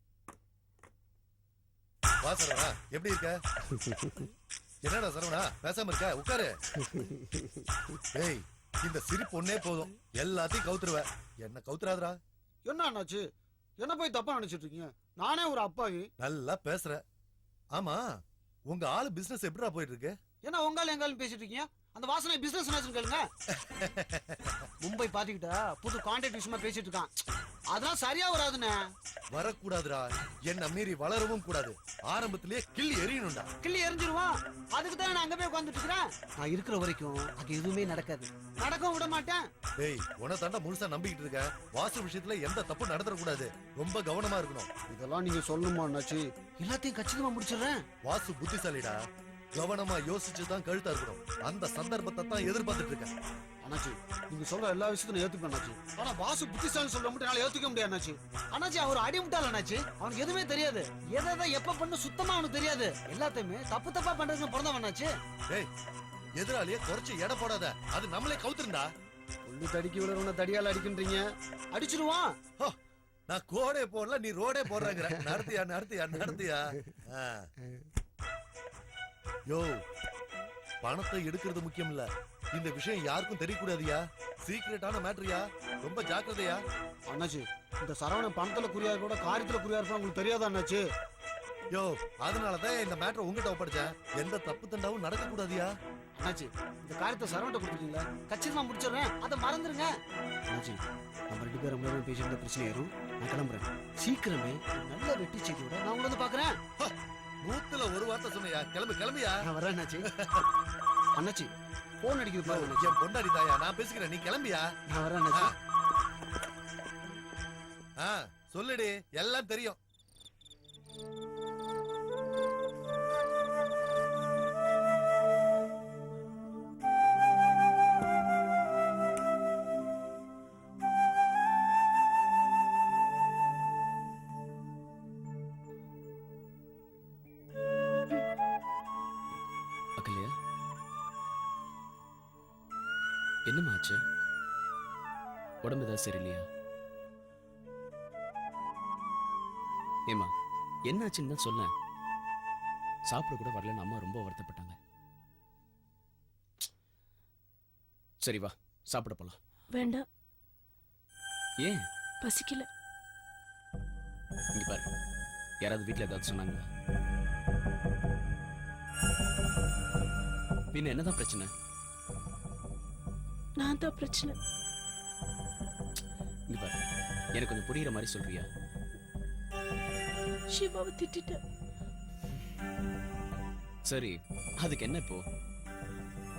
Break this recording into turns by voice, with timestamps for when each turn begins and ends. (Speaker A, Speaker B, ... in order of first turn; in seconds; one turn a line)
Speaker A: 2.2-3.4
Speaker A: 4.8-6.5
Speaker A: 8.1-12.2
Speaker B: 12.7-13.2
Speaker B: 13.8-16.1
Speaker A: 16.2-17.0
Speaker A: 17.7-18.0
Speaker A: 18.7-20.1
Speaker B: 20.4-23.2
Speaker A: 23.8-24.4
Speaker B: 24.8-27.1
Speaker B: 27.7-28.7
Speaker A: 29.3-33.5
Speaker B: 33.6-39.4
Speaker A: 39.8-44.7
Speaker B: 44.9-47.8
Speaker A: 48.0-49.0
Speaker A: 49.5-53.1
Speaker B: 53.6-65.1
Speaker A: 66.4-68.9
Speaker B: 69.5-72.3
Speaker A: 73.3-77.5
Speaker A: 79.5-79.8
Speaker A: 80.8-86.6
Speaker B: 87.1-90.8
Speaker A: 91.7-95.7
Speaker B: 96.2-99.9
Speaker B: 100.5-100.8
Speaker B: 101.3-106.5
Speaker A: 106.8-109.4
Speaker B: 109.4-110.1
Speaker B: 111.2-111.5
Speaker B: 112.0-113.0
Speaker A: 112.4-114.7
Speaker B: 114.9-115.5
Speaker A: 118.0-119.8
Speaker C: 140.0-140.3
Speaker C: 143.5-144.0
Speaker C: 145.6-146.4
Speaker C: 150.9-151.7
Speaker C: 153.1-154.8
Speaker C: 158.2-159.4
Speaker D: 159.7-160.0
Speaker D: 162.2-162.7
Speaker C: 164.5-164.8
Speaker C: 165.6-166.6
Speaker C: 170.7-171.5
Speaker D: 173.6-174.3
Speaker C: 176.5-176.8
Speaker C: 177.3-178.4
Speaker D: 180.5-181.4
Speaker C: 183.9-185.2